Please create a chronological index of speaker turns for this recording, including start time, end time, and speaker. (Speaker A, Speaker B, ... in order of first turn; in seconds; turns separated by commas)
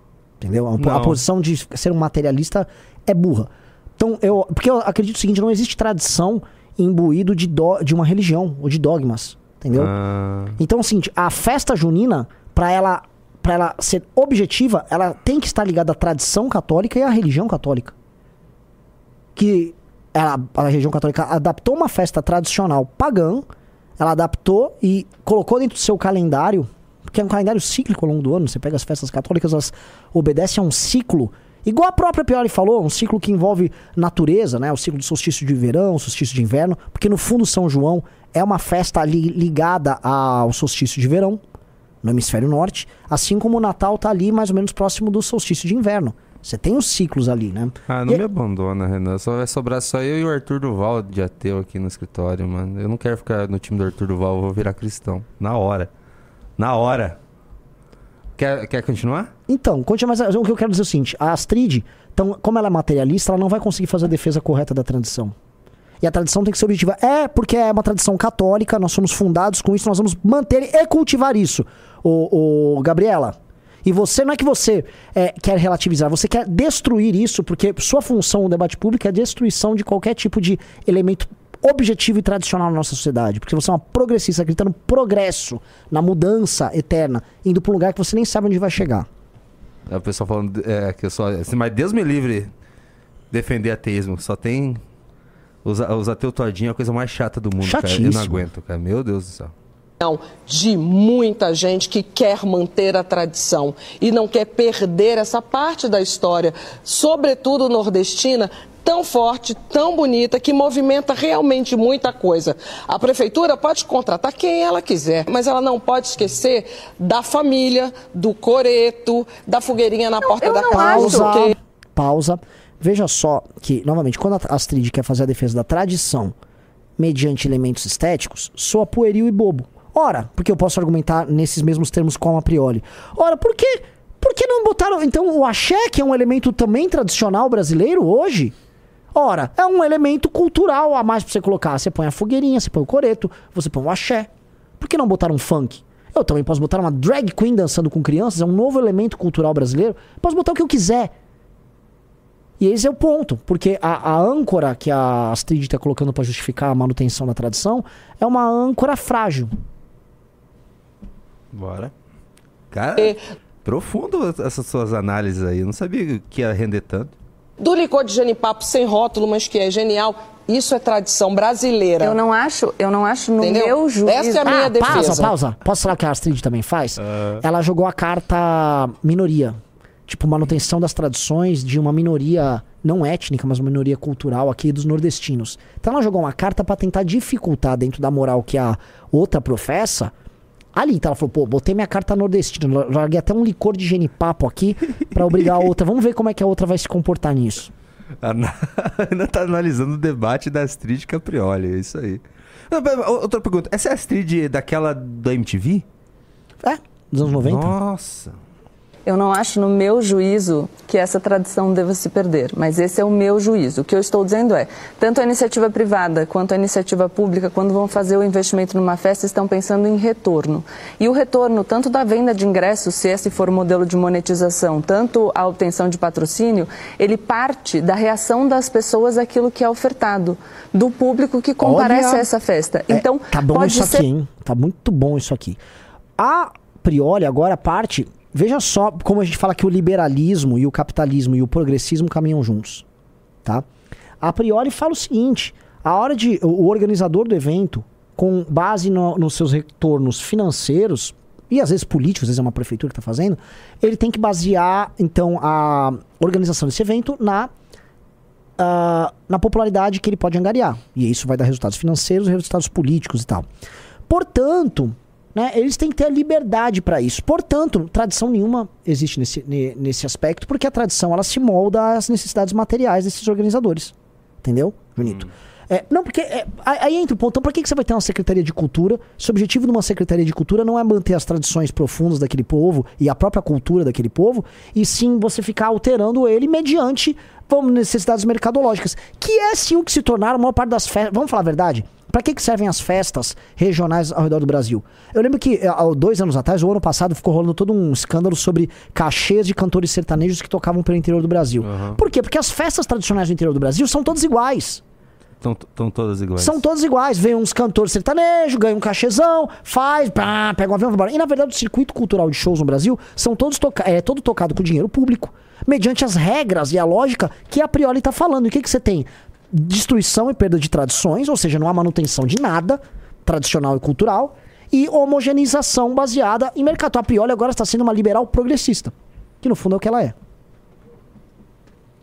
Speaker A: 0.4-9.9, Speaker B: 0.8-1.2, Speaker B: 9.7-10.6, Speaker A: 10.6-17.9, Speaker A: 19.4-23.4, Speaker A: 24.0-41.4, Speaker A: 42.0-48.2, Speaker B: 47.9-55.9, Speaker B: 56.6-57.2, Speaker B: 58.4-59.3, Speaker A: 59.5-65.3, Speaker A: 66.0-89.1, Speaker B: 89.9-92.5, Speaker B: 93.3-94.8, Speaker B: 95.6-99.5, Speaker A: 97.6-98.4, Speaker C: 100.0-121.5, Speaker D: 120.3-121.5, Speaker A: 120.7-126.3, Speaker A: 127.0-138.5, Speaker A: 139.1-144.3, Speaker A: 144.8-151.1, Speaker A: 152.6-159.5, Speaker B: 161.5-161.9, Speaker B: 162.7-167.1, Speaker C: 167.6-172.2, Speaker D: 172.0-175.1, Speaker C: 173.4-175.3, Speaker A: 174.4-190.1, Speaker B: 177.0-177.4, Speaker A: 190.7-197.7, Speaker B: 198.2-205.9, Speaker A: 206.6-207.7, Speaker B: 207.4-208.4, Speaker D: 209.1-234.1, Speaker A: 231.6-232.3, Speaker A: 232.9-235.6, Speaker A: 236.2-242.8, Speaker A: 244.2-257.5, Speaker A: 258.6-263.4, Speaker A: 264.1-304.8, Speaker B: 301.6-302.0, Speaker B: 305.4-306.6, Speaker A: 306.4-330.1